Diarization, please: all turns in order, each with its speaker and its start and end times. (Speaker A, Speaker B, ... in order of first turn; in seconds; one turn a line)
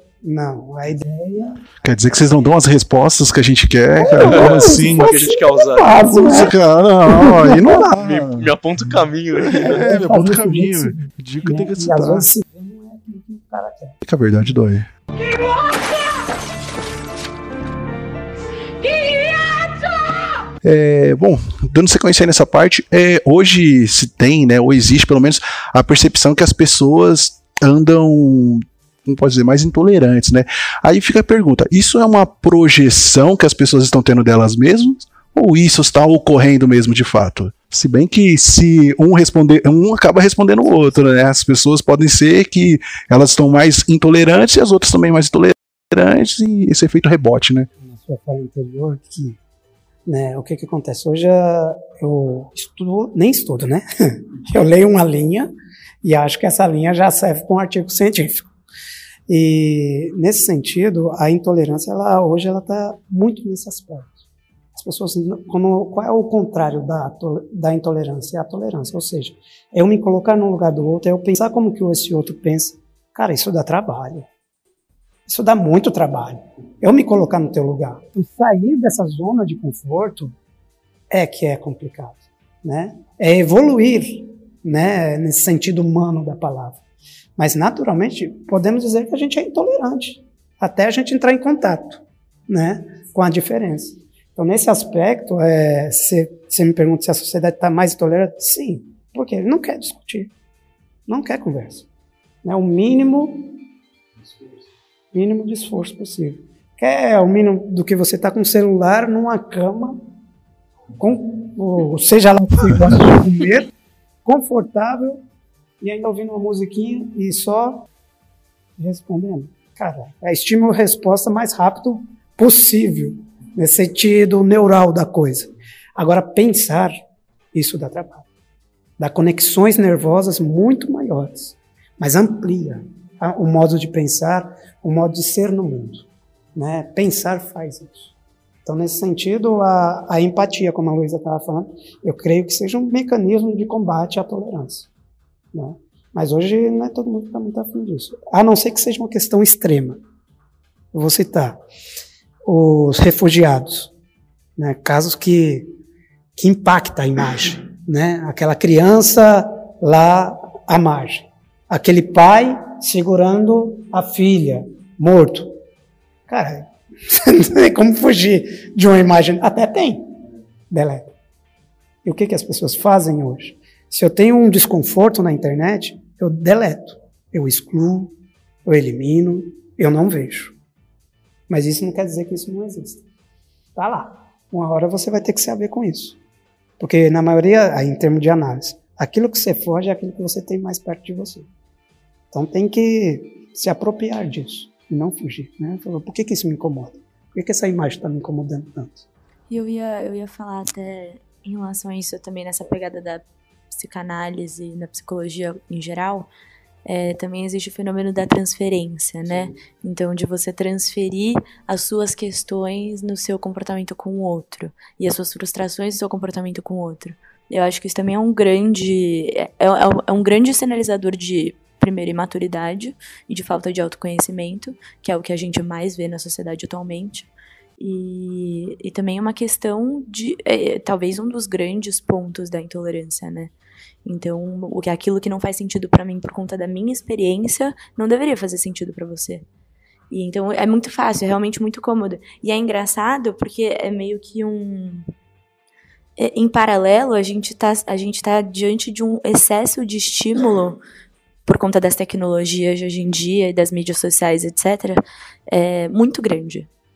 Speaker A: 0.2-1.6
Speaker B: 1.8-5.3
Speaker A: 4.0-6.5
Speaker C: 4.2-6.1
Speaker B: 6.0-8.5
Speaker A: 7.0-7.9
Speaker C: 7.9-9.8
Speaker B: 9.5-12.3
Speaker A: 9.5-13.9
Speaker B: 14.0-14.9
Speaker B: 20.6-47.7
Speaker A: 47.8-49.4
Speaker A: 50.0-55.5
Speaker A: 56.0-58.5
Speaker A: 59.3-64.2
Speaker A: 64.7-74.3
Speaker A: 75.3-80.3
Speaker A: 81.1-86.8
Speaker A: 87.4-100.3
Speaker A: 101.1-101.9
Speaker A: 102.4-103.6
Speaker A: 105.1-110.0
Speaker A: 110.9-113.7
Speaker A: 114.2-115.2
Speaker A: 115.8-117.9
Speaker A: 118.8-126.9
Speaker A: 127.5-128.3
Speaker A: 129.0-138.1
Speaker A: 138.6-144.9
Speaker A: 145.5-150.0
Speaker A: 150.9-151.6
Speaker A: 152.4-153.9
Speaker A: 154.6-155.7
Speaker A: 156.4-165.5
Speaker A: 166.3-170.1
Speaker A: 170.7-171.1
Speaker A: 172.0-178.1
Speaker A: 178.7-180.6
Speaker A: 181.5-183.0
Speaker A: 183.8-186.2
Speaker A: 186.8-191.5
Speaker A: 192.3-199.0
Speaker D: 199.5-206.3
Speaker D: 206.9-233.5
Speaker D: 234.1-239.4
Speaker D: 240.1-245.1
Speaker D: 246.2-250.8
Speaker D: 251.4-256.7